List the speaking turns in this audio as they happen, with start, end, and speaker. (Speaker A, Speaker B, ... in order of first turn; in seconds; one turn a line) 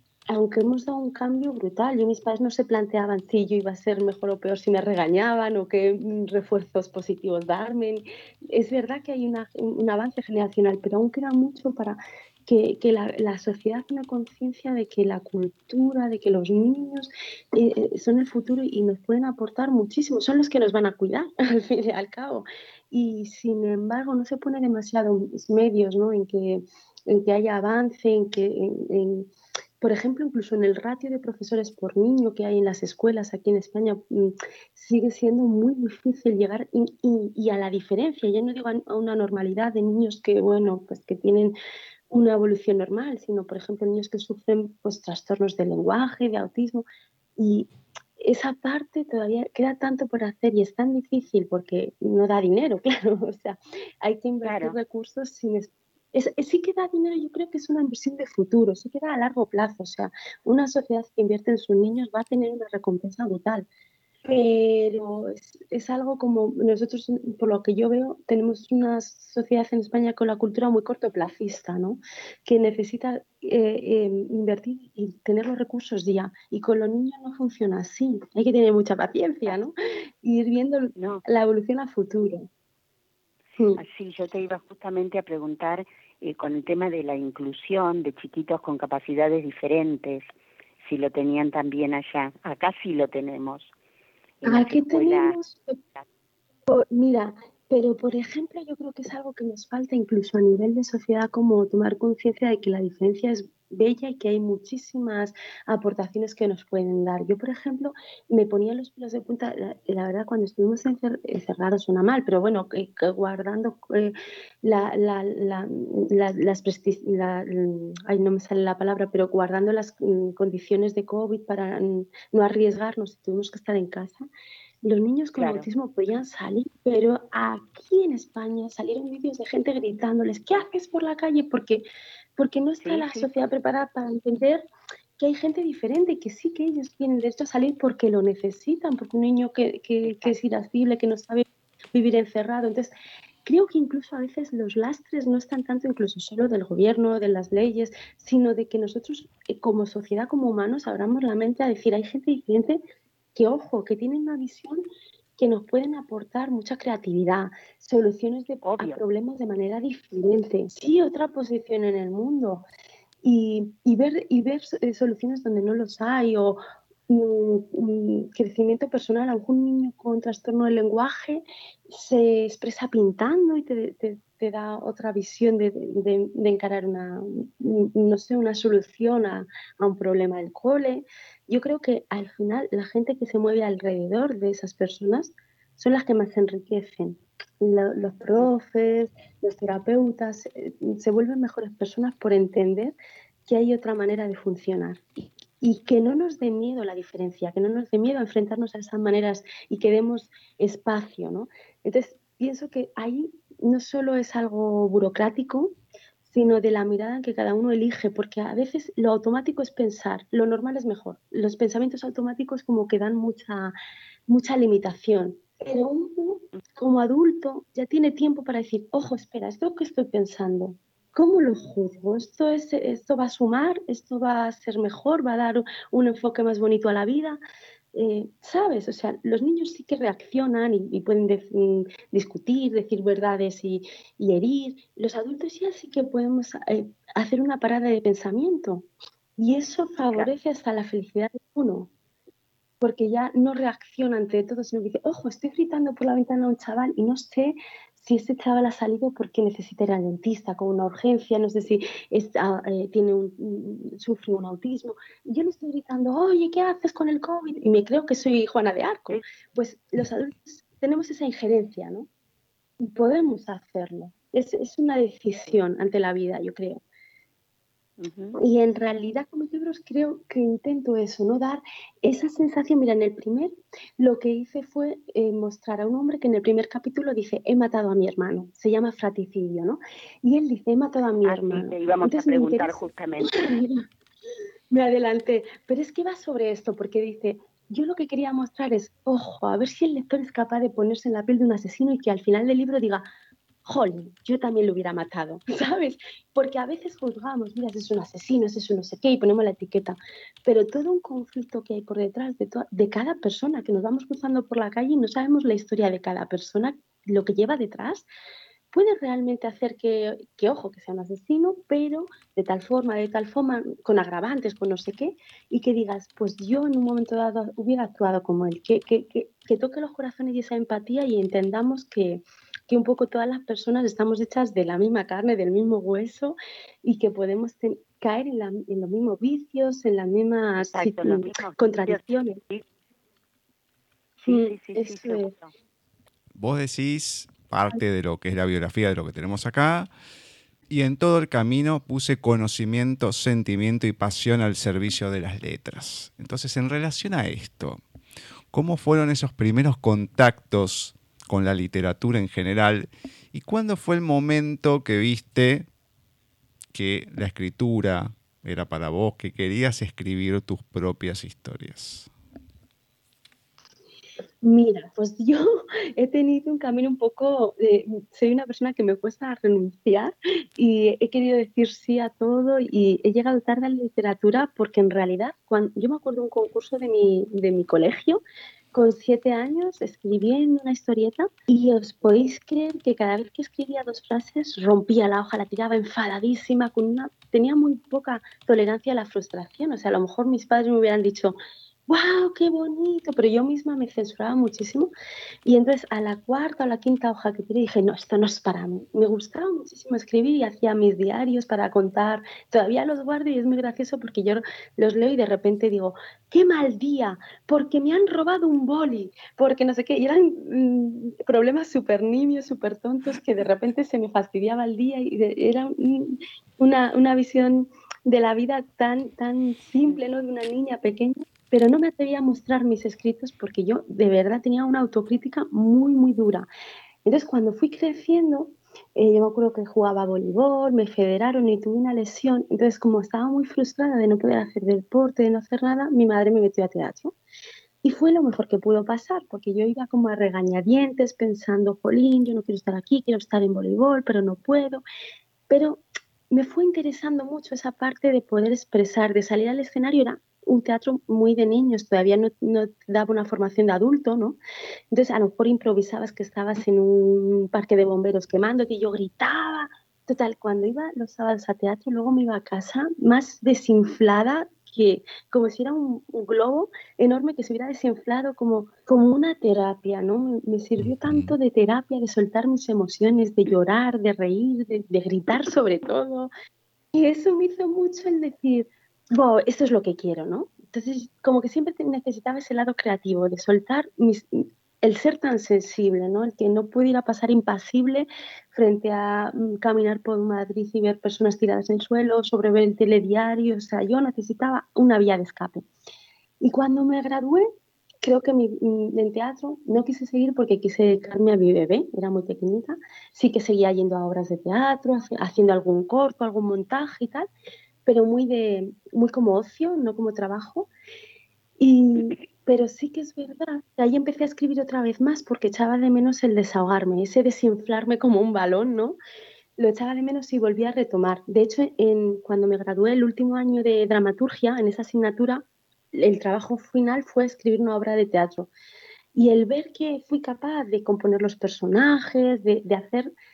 Speaker A: 0.3-29.3
Speaker A: 29.8-41.5
Speaker A: 42.1-46.8
Speaker A: 47.4-63.6
Speaker B: 54.4-54.8
Speaker A: 64.2-82.5
Speaker B: 81.0-81.2
Speaker A: 83.6-83.8
Speaker B: 83.8-90.2
Speaker B: 90.8-93.7
Speaker B: 94.4-95.4
Speaker A: 94.5-95.8
Speaker A: 96.7-124.2
Speaker A: 124.8-131.8
Speaker B: 125.4-125.7
Speaker A: 132.4-134.6
Speaker B: 132.8-133.3
Speaker A: 135.2-142.9
Speaker B: 140.0-140.3
Speaker A: 143.4-152.8
Speaker A: 153.3-154.8
Speaker A: 155.4-162.7
Speaker B: 158.6-159.0
Speaker A: 163.2-192.9
Speaker A: 193.5-205.7
Speaker A: 206.2-213.7
Speaker A: 214.3-227.4
Speaker A: 227.9-238.9
Speaker A: 239.4-241.9
Speaker A: 242.8-262.1
Speaker A: 262.8-266.8
Speaker B: 268.0-268.4
Speaker A: 268.4-283.8
Speaker B: 281.2-283.3
Speaker A: 284.7-293.1
Speaker A: 293.6-308.1
Speaker A: 308.7-332.4
Speaker B: 330.7-332.6
Speaker A: 334.2-335.3
Speaker B: 334.3-335.5
Speaker C: 336.4-339.9
Speaker C: 340.7-347.8
Speaker C: 348.5-355.7
Speaker C: 356.7-362.1
Speaker A: 364.4-365.4
Speaker A: 366.0-378.2
Speaker A: 378.7-391.4
Speaker A: 391.9-394.9
Speaker A: 395.4-426.5
Speaker A: 427.0-437.1
Speaker A: 437.8-444.8
Speaker A: 445.5-454.4
Speaker A: 454.9-476.3
Speaker C: 470.8-471.3
Speaker A: 476.9-495.6
Speaker A: 496.4-497.4
Speaker A: 498.0-507.3
Speaker A: 507.8-510.7
Speaker A: 511.6-519.0
Speaker A: 519.6-525.4
Speaker A: 526.0-528.5
Speaker A: 529.1-533.1